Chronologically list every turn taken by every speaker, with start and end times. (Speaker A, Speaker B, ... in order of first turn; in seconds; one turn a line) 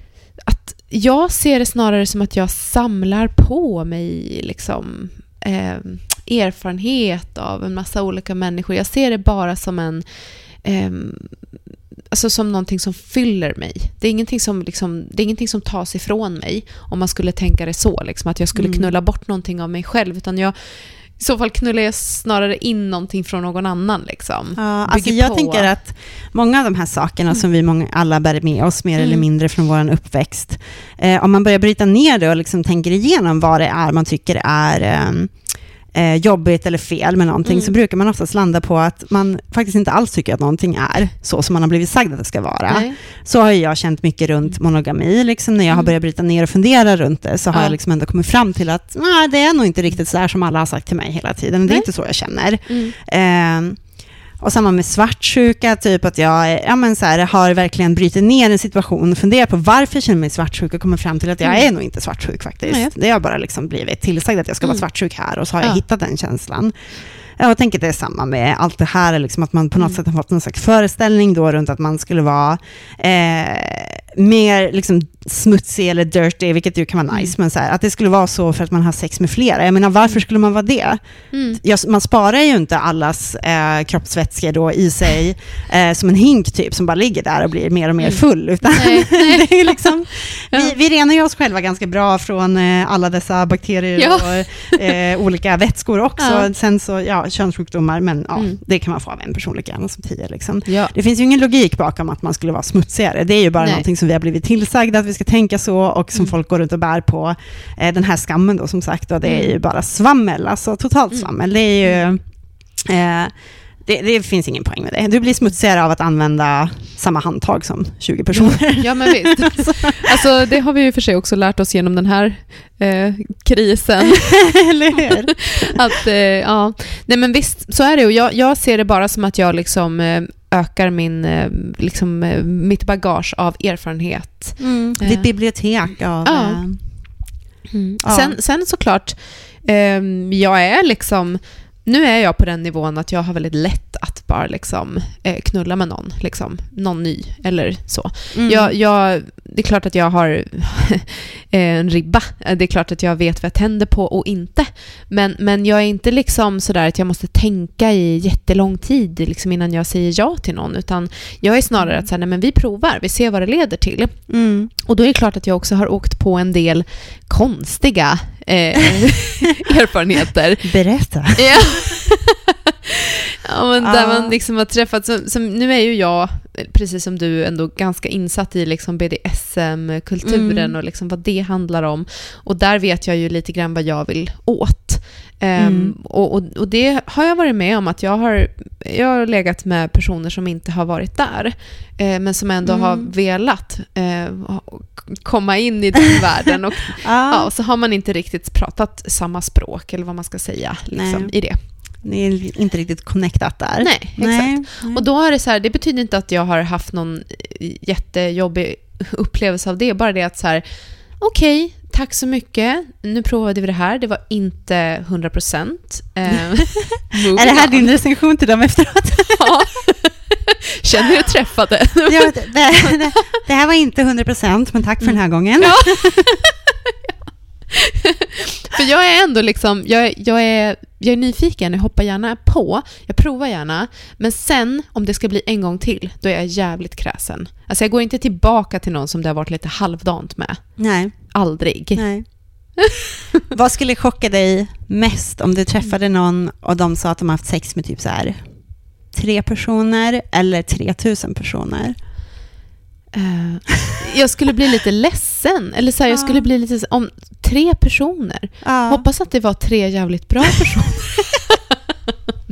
Speaker A: 0.5-11.6
Speaker A: 12.1-25.7
Speaker B: 18.6-18.9
Speaker B: 24.6-120.2
Speaker A: 29.0-29.2
Speaker A: 37.5-37.7
Speaker A: 42.7-43.0
Speaker A: 52.7-53.0
Speaker A: 81.3-81.6
Speaker A: 88.0-90.0
Speaker A: 94.0-94.8
Speaker A: 96.2-96.5
Speaker A: 100.7-100.9
Speaker A: 103.6-103.9
Speaker A: 109.2-109.6
Speaker A: 118.3-124.7
Speaker B: 124.5-125.7
Speaker A: 125.4-137.1
Speaker B: 134.6-137.3
Speaker A: 137.7-170.7
Speaker B: 138.0-138.4
Speaker B: 148.3-148.7
Speaker B: 161.8-162.1
Speaker B: 164.3-164.7
Speaker B: 170.6-171.8
Speaker A: 171.3-201.6
Speaker B: 173.8-174.4
Speaker B: 180.2-180.7
Speaker B: 185.6-185.9
Speaker B: 192.6-193.1
Speaker B: 197.0-197.5
Speaker B: 200.9-205.0
Speaker A: 203.8-217.9
Speaker B: 216.6-219.6
Speaker A: 219.4-223.2
Speaker B: 222.1-226.4
Speaker A: 225.0-226.5
Speaker A: 227.7-242.7
Speaker B: 240.8-242.8
Speaker B: 243.5-252.0
Speaker A: 253.1-261.6
Speaker B: 256.1-256.5
Speaker B: 258.6-259.1